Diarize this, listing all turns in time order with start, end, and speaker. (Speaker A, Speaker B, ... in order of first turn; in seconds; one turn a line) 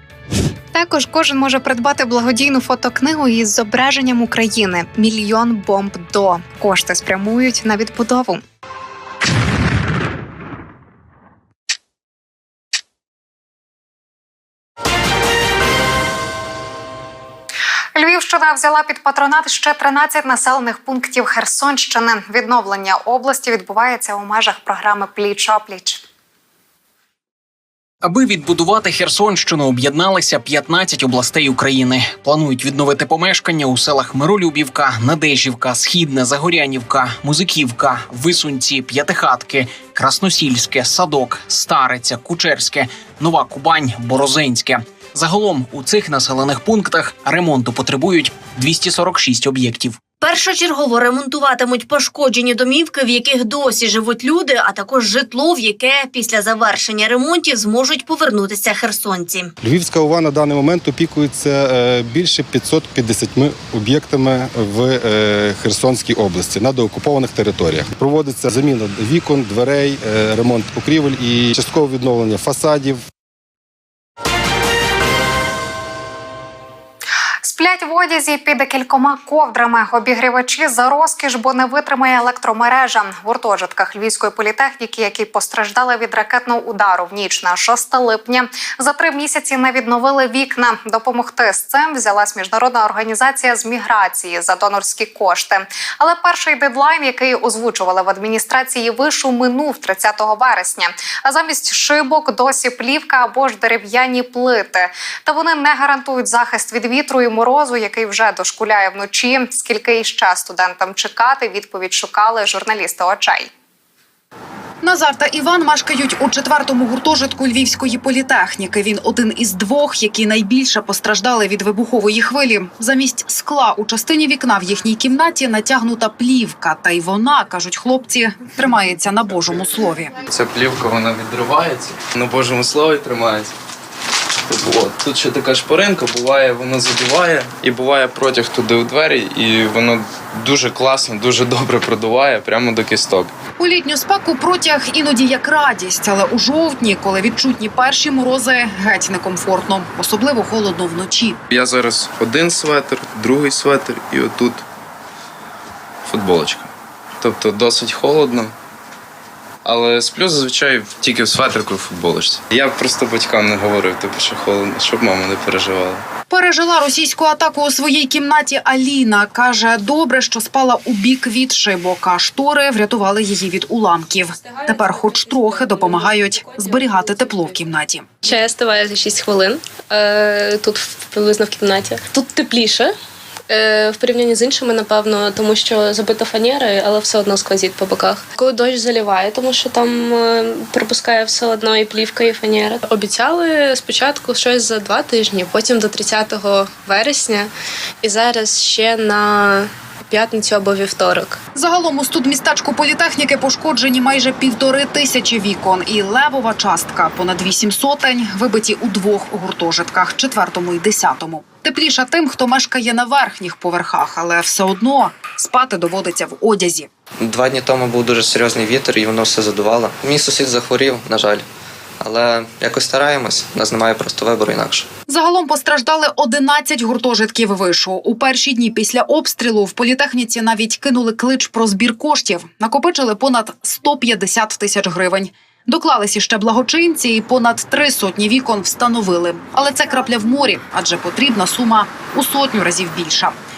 Speaker A: 0.7-8.4
Speaker A: 17.9-26.0
Speaker B: 28.0-50.0
Speaker C: 50.2-59.5
Speaker D: 59.6-73.0
Speaker A: 77.4-113.5
Speaker E: 114.8-130.2
Speaker F: 130.2-133.5
Speaker F: 134.5-143.3
Speaker E: 143.6-151.4
Speaker F: 151.5-154.6
Speaker F: 156.1-158.5
Speaker F: 159.6-166.0
Speaker E: 166.3-178.1
Speaker G: 178.2-182.9
Speaker G: 183.5-197.5
Speaker G: 198.0-201.4
Speaker E: 201.6-216.9
Speaker H: 217.2-221.5
Speaker H: 222.0-224.9
Speaker E: 225.1-243.4